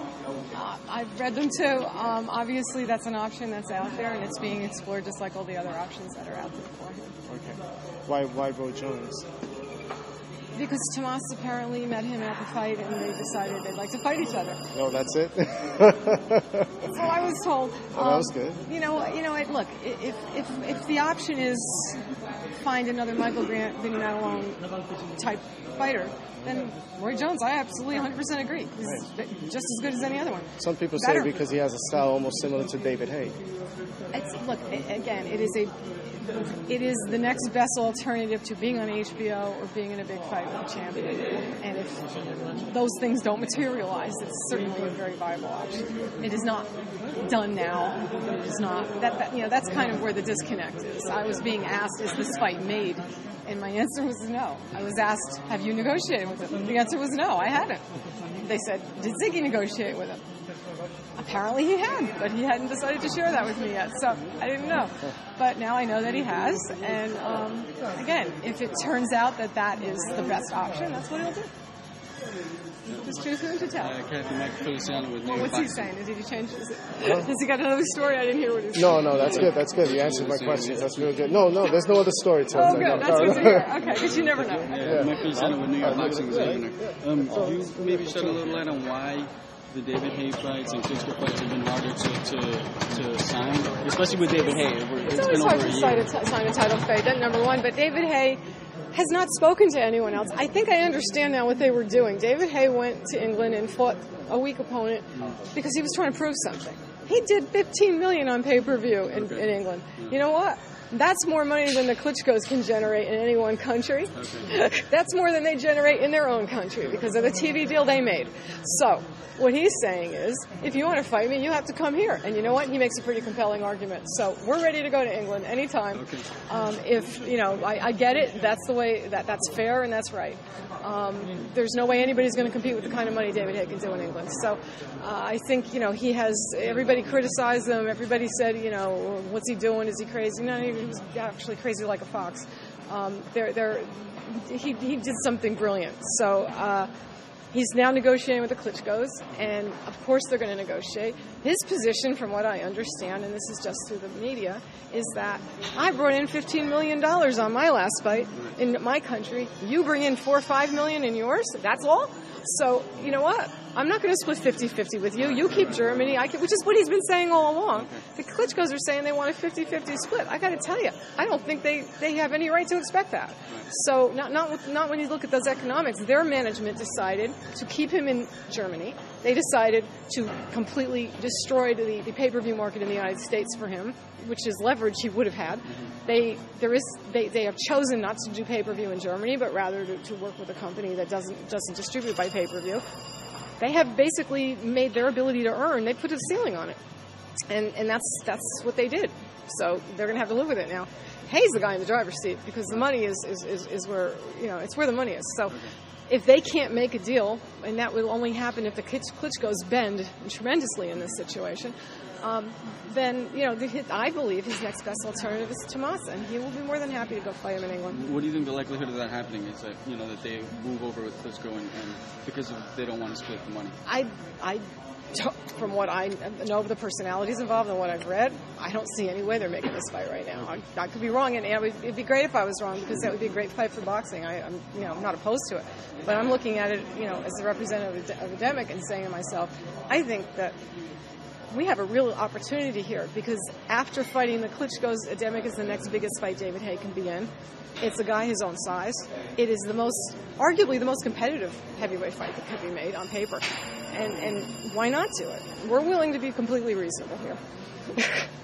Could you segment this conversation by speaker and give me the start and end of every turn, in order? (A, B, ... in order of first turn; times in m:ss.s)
0:00.5-0:07.1 A
0:07.3-0:09.3 B
0:10.5-0:14.6 A
0:14.7-0:16.7 B
0:16.8-0:22.0 A
0:17.9-0:18.6 B
0:22.6-0:24.6 A
0:25.1-0:31.3 A
0:30.6-0:33.4 B
0:34.1-0:42.0 A
0:42.5-0:57.8 A
0:58.4-1:00.2 A
1:01.2-1:11.5 A
1:12.9-1:14.0 A
1:13.7-1:15.8 C
1:15.2-1:19.6 A
1:17.0-1:17.3 B
1:18.7-1:23.8 B
1:19.1-1:21.1 C
1:22.5-1:25.2 A
1:22.8-1:36.0 C
1:24.8-1:28.2 B
1:35.0-1:38.4 A
1:38.9-2:26.9 A
1:49.1-1:50.2 C
1:54.1-1:54.5 C
2:05.9-2:06.2 C
2:27.5-3:12.8 A
2:45.4-2:45.9 C
3:13.6-3:16.8 A
3:17.5-3:38.0 A
3:37.9-3:43.8 C
3:43.8-3:44.6 A
3:45.1-4:00.6 A
4:01.5-4:17.4 A
4:17.9-4:18.2 A